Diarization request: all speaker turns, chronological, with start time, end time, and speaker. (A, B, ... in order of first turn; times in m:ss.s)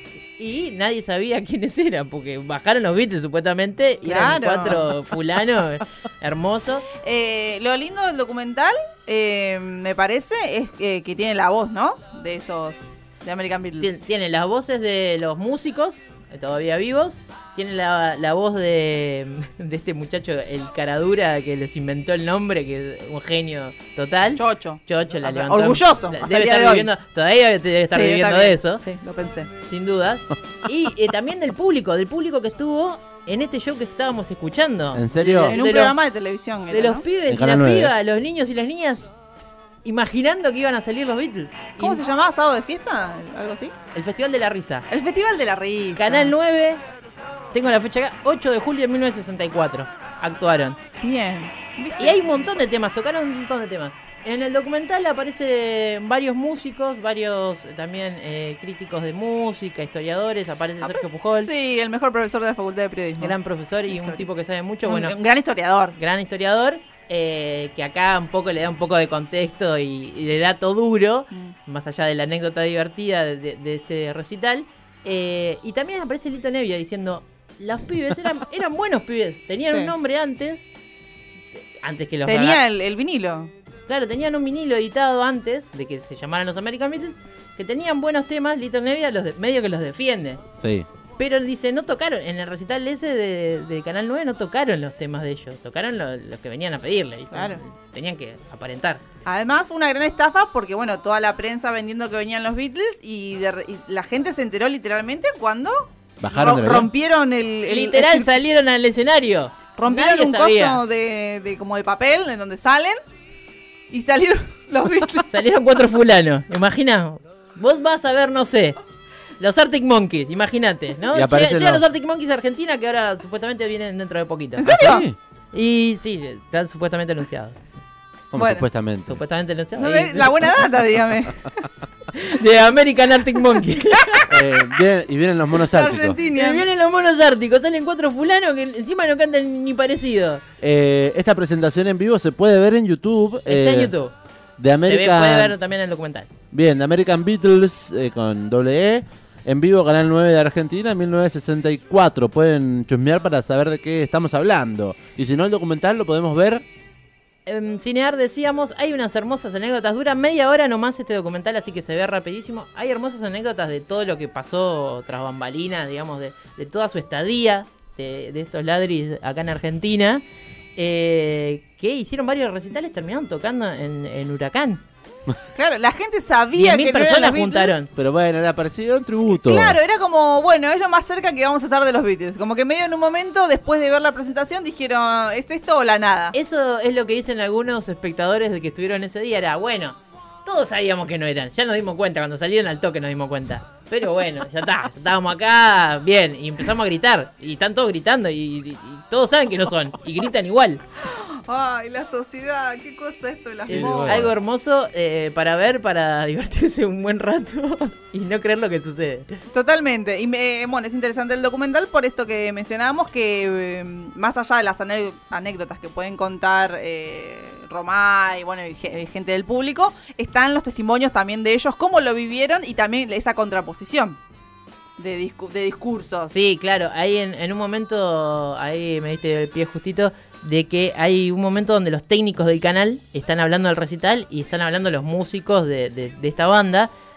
0:00.4-0:06.8 A
0:04.0-0:04.9 B
0:07.0-0:13.9 B
0:13.8-0:28.8 A
0:24.3-0:26.9 B
0:27.9-0:29.5 B
0:29.6-0:36.0 A
0:34.9-0:35.6 C
0:35.5-0:37.0 B
0:36.7-0:39.0 A
0:37.3-0:37.9 C
0:39.8-0:42.0 A
0:41.8-0:43.7 B
0:43.9-0:44.9 A
0:44.9-0:46.3 B
0:46.0-0:46.8 A
0:47.5-0:50.8 A
0:51.0-0:52.5 B
0:52.0-1:01.5 A
1:00.8-1:03.3 B
1:03.2-1:05.2 A
1:03.9-1:04.2 B
1:04.8-1:06.0 B
1:06.0-1:20.6 A
1:19.7-1:19.9 B
1:21.8-1:22.6 A
1:22.2-1:23.5 B
1:23.9-1:30.4 A
1:30.6-1:30.9 C
1:31.2-1:39.0 A
1:37.3-1:37.6 B
1:39.2-1:48.3 B
1:46.2-1:46.9 C
1:47.7-1:50.8 A
1:49.8-1:53.0 B
1:53.9-1:55.3 B
1:55.3-1:58.8 A
1:59.4-2:04.8 A
2:01.1-2:01.8 C
2:04.6-2:05.0 B
2:04.6-2:05.2 C
2:05.5-2:07.6 A
2:08.3-2:09.2 C
2:08.3-2:08.6 B
2:09.0-2:10.6 A
2:09.8-2:11.5 B
2:12.1-2:14.3 A
2:14.3-2:16.2 C
2:15.5-2:16.6 B
2:16.3-2:20.4 A
2:20.6-2:23.9 C
2:23.5-2:24.1 A
2:24.6-2:25.6 C
2:24.9-2:26.3 A
2:26.5-2:36.6 C
2:37.4-2:50.2 A
2:50.8-2:54.8 A
2:55.5-2:57.8 B
2:56.6-2:57.9 A
2:58.0-2:59.8 C
2:59.3-3:06.3 B
3:06.3-3:20.8 A
3:21.0-3:24.3 B
3:23.7-3:29.4 A
3:23.7-3:24.3 C
3:29.5-3:44.2 B
3:45.0-3:46.3 B
3:46.3-3:56.9 A